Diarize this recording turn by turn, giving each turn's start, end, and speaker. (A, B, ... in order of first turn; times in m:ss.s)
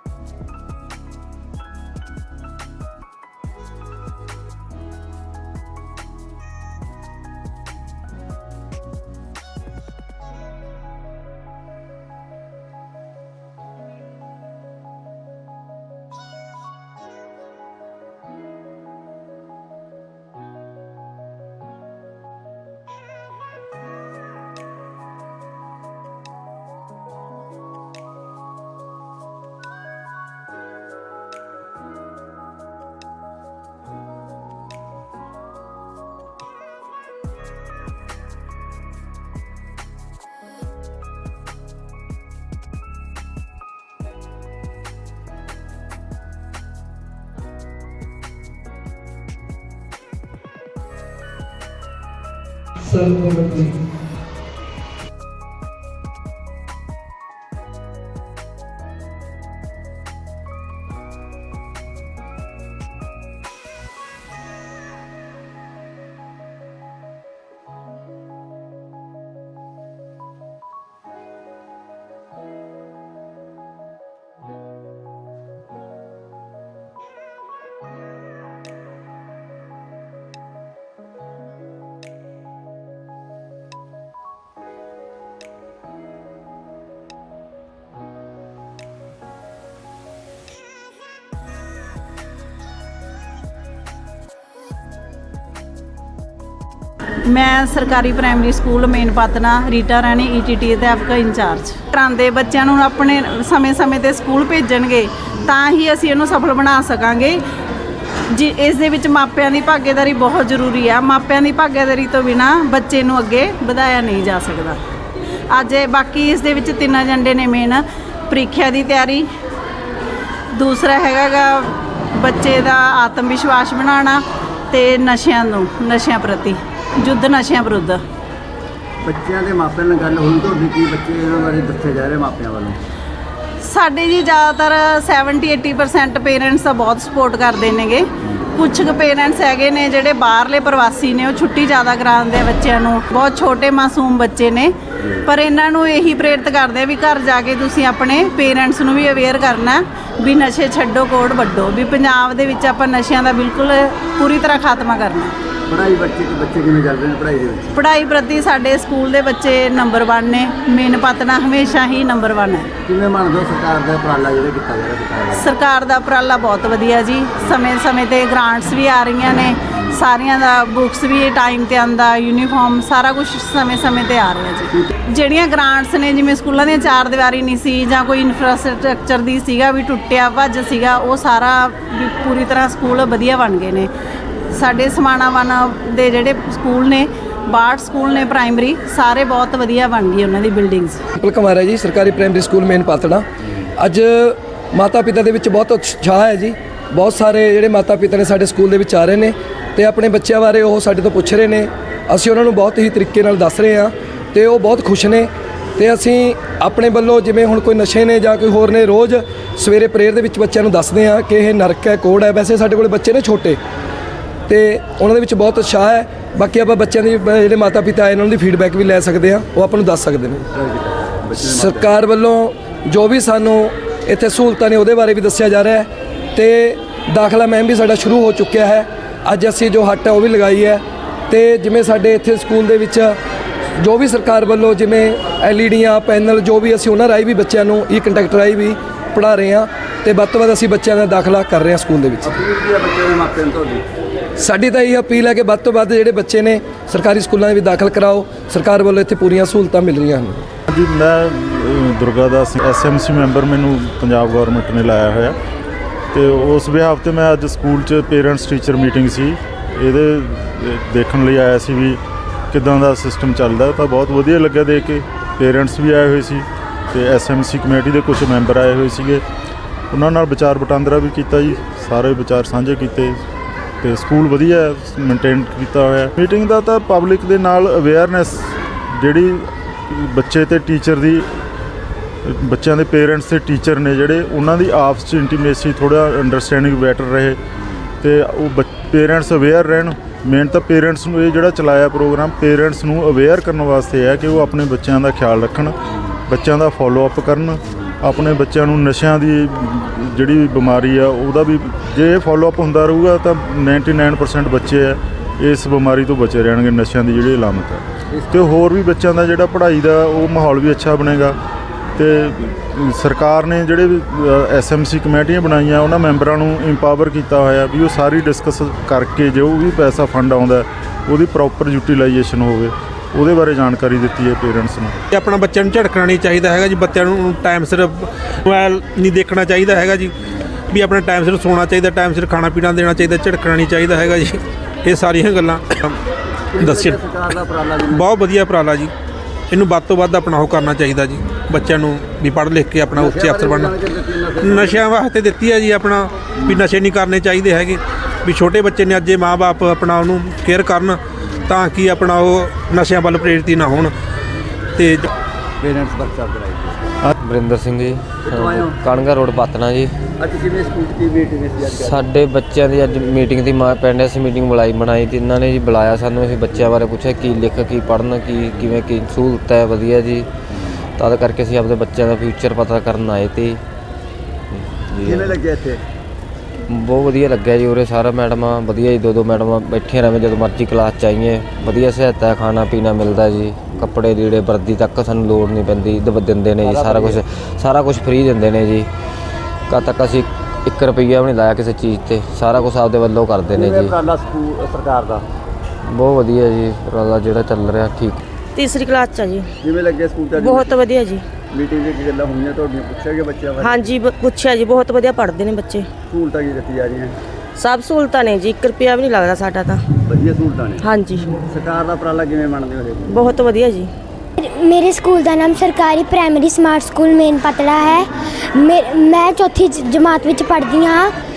0:52.8-0:53.7 A
1:37.3-1:47.4 B
1:48.3-1:54.8 B
1:55.5-1:59.3 B
2:00.5-2:08.0 B
2:09.0-2:12.8 C
2:13.6-2:24.7 B
2:25.2-2:35.4 B
2:35.7-2:37.7 C
2:37.7-2:42.7 B
2:42.9-2:45.4 C
2:45.4-3:03.9 B
3:04.5-3:11.0 B
3:11.2-3:13.2 A
3:13.8-3:33.6 A
3:34.5-3:40.4 A
3:40.5-3:42.0 C
3:41.4-3:53.2 A
3:53.8-4:02.3 A
4:02.2-4:03.8 C
4:04.4-4:10.4 A
4:10.7-4:15.4 D
4:16.1-4:22.0 D
4:22.5-4:29.2 D
4:29.9-4:33.2 D
4:33.8-4:41.3 D
4:42.2-4:47.4 D
4:48.0-5:11.4 D
5:12.0-5:25.0 D
5:25.1-5:30.1 E
5:30.7-5:36.0 E
5:36.6-5:38.1 C
5:36.6-5:37.0 E
5:37.9-5:38.9 E
5:39.5-5:43.8 E
5:42.9-5:44.8 C
5:44.4-5:53.9 E
5:54.8-5:55.1 E
5:55.6-5:56.9 C
5:57.2-5:59.9 F
5:58.2-5:58.7 C
6:00.2-6:02.0 C
6:01.7-6:10.3 F
6:11.0-6:13.6 F
6:14.5-6:15.4 F
6:15.0-6:15.8 C
6:16.7-6:28.9 F
6:26.6-6:27.2 C
6:29.7-6:34.0 F
6:33.5-6:35.2 C
6:35.8-6:38.2 F
6:38.5-6:39.5 G
6:39.6-6:40.8 C
6:40.3-6:41.3 G
6:41.5-6:43.9 C
6:43.6-6:45.9 G
6:46.1-6:47.2 C
6:47.6-6:49.8 G
6:50.1-6:50.9 C
6:50.8-6:51.4 G
6:51.4-6:53.2 C
6:53.1-6:53.9 G
6:54.4-7:01.1 H